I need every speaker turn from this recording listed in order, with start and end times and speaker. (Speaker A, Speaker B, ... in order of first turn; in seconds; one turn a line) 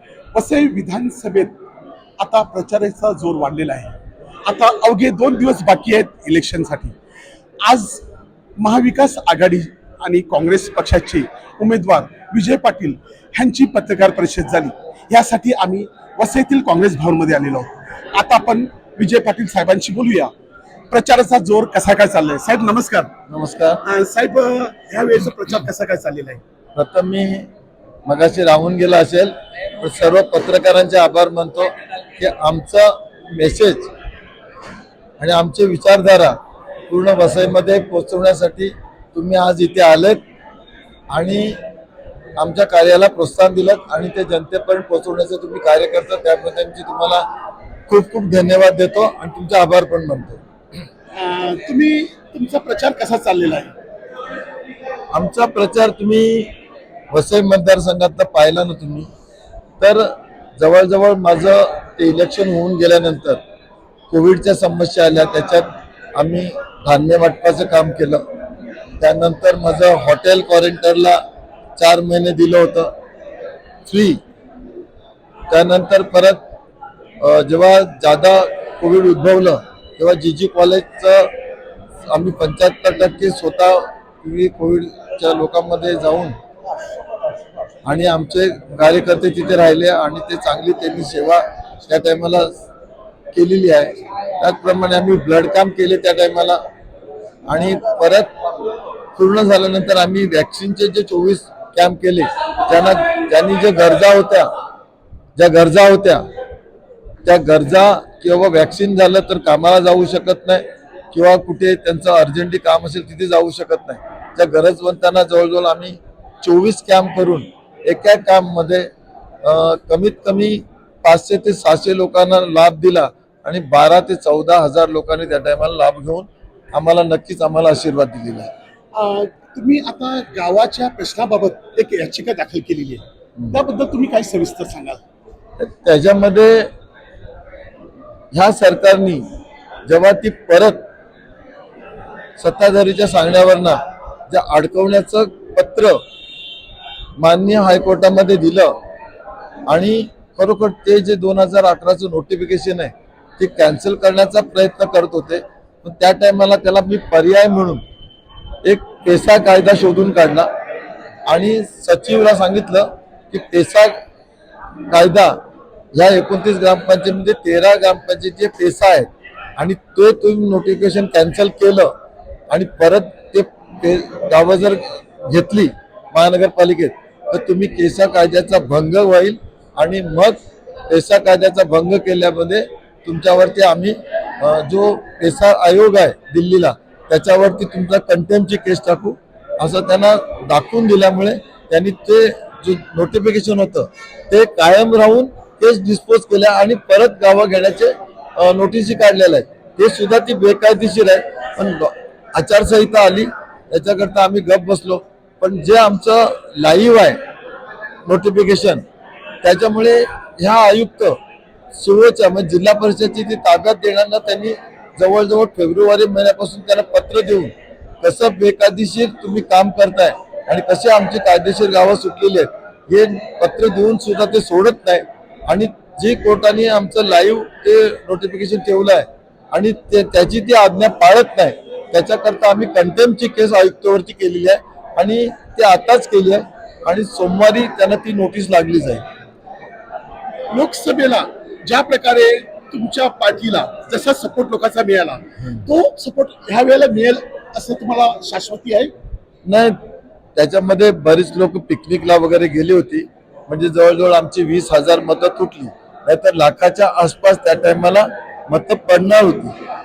Speaker A: 0.3-1.6
Speaker A: 2.2-6.9
Speaker A: 7.6-8.0
Speaker A: 8.6-20.3
Speaker A: 20.9-23.1
Speaker B: 23.3-23.8
Speaker A: 23.8-26.4
Speaker B: 26.8-27.5
Speaker B: 28.1-33.9
Speaker B: 35.2-36.4
Speaker B: 36.9-40.2
Speaker B: 41.1-41.6
Speaker B: 42.4-47.2
Speaker B: 47.9-50.4
Speaker A: 51.1-53.7
Speaker B: 55.1-56.5
Speaker B: 57.1-59.1
Speaker B: 59.8-63.4
Speaker B: 64.1-68.2
Speaker B: 69.0-71.2
Speaker B: 71.8-72.9
Speaker B: 73.8-74.2
Speaker B: 75.5-76.4
Speaker B: 77.2-81.3
Speaker B: 82.1-86.4
Speaker B: 87.8-92.5
Speaker B: 93.3-96.6
Speaker B: 97.5-98.3
Speaker B: 99.2-104.5
Speaker B: 105.4-106.2
Speaker B: 107.2-118.9
Speaker B: 119.4-128.5
Speaker A: 128.9-135.0
Speaker B: 135.6-136.7
Speaker B: 138.3-139.2
Speaker B: 139.9-140.8
Speaker B: 142.4-146.0
Speaker B: 147.2-148.8
Speaker B: 149.7-157.8
Speaker B: 158.6-160.5
Speaker B: 161.3-164.0
Speaker B: 164.9-165.4
Speaker B: 165.9-171.9
Speaker B: 172.5-180.4
Speaker B: 180.9-207.2
Speaker B: 208.1-208.8
Speaker B: 209.4-211.2
Speaker B: 211.7-239.0
Speaker A: 240.5-248.9
Speaker B: 249.4-249.8
Speaker B: 250.4-259.6